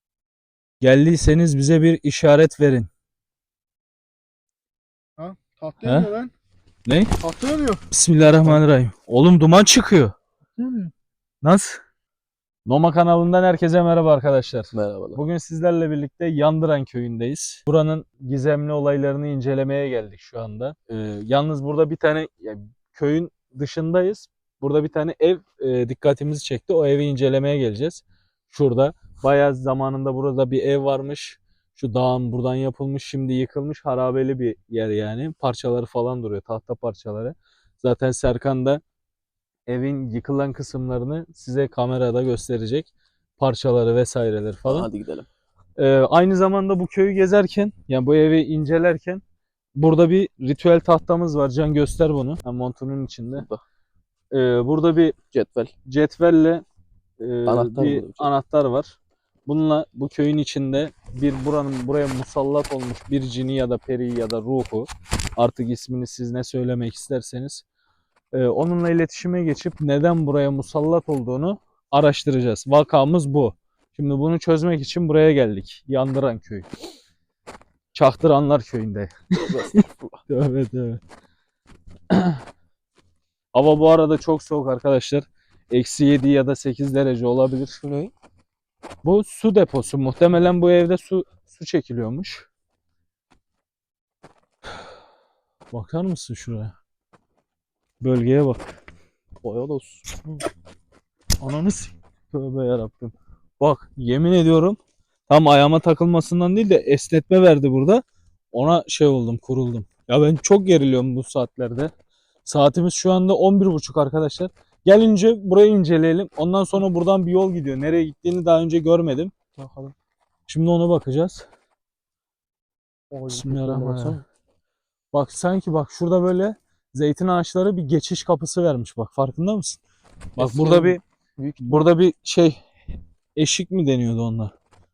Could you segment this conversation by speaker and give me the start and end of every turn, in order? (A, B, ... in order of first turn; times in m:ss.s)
0:00.8-0:02.9 A
0:05.2-0:06.3 B
0:05.8-0:06.3 A
0:06.9-0:07.3 A
0:07.3-0:07.8 B
0:07.8-0:10.2 A
0:10.6-0:10.9 B
0:11.4-0:11.8 A
0:12.7-0:38.8 A
0:14.7-0:15.2 C
0:39.7-0:44.9 A
0:44.6-0:45.3 C
0:45.8-0:49.2 A
0:49.8-0:53.5 A
0:53.4-0:53.6 C
0:54.3-0:55.2 A
0:55.3-0:55.7 C
0:55.9-0:56.6 A
0:57.2-1:07.6 A
0:57.5-0:58.3 C
1:08.3-1:16.7 A
1:17.9-1:21.0 A
1:19.4-1:20.2 C
1:22.1-1:22.4 A
1:23.5-1:27.8 A
1:27.8-1:28.1 C
1:29.0-1:32.5 A
1:35.7-1:36.7 A
1:38.0-1:38.6 A
1:39.4-1:40.4 C
1:41.4-1:51.9 A
1:52.4-1:59.3 A
1:59.6-2:00.0 C
2:00.5-2:01.5 A
2:03.1-2:04.2 C
2:03.3-2:04.2 A
2:05.1-2:09.8 A
2:10.4-2:11.0 A
2:10.4-2:11.9 C
2:11.6-2:12.6 A
2:13.4-2:14.6 A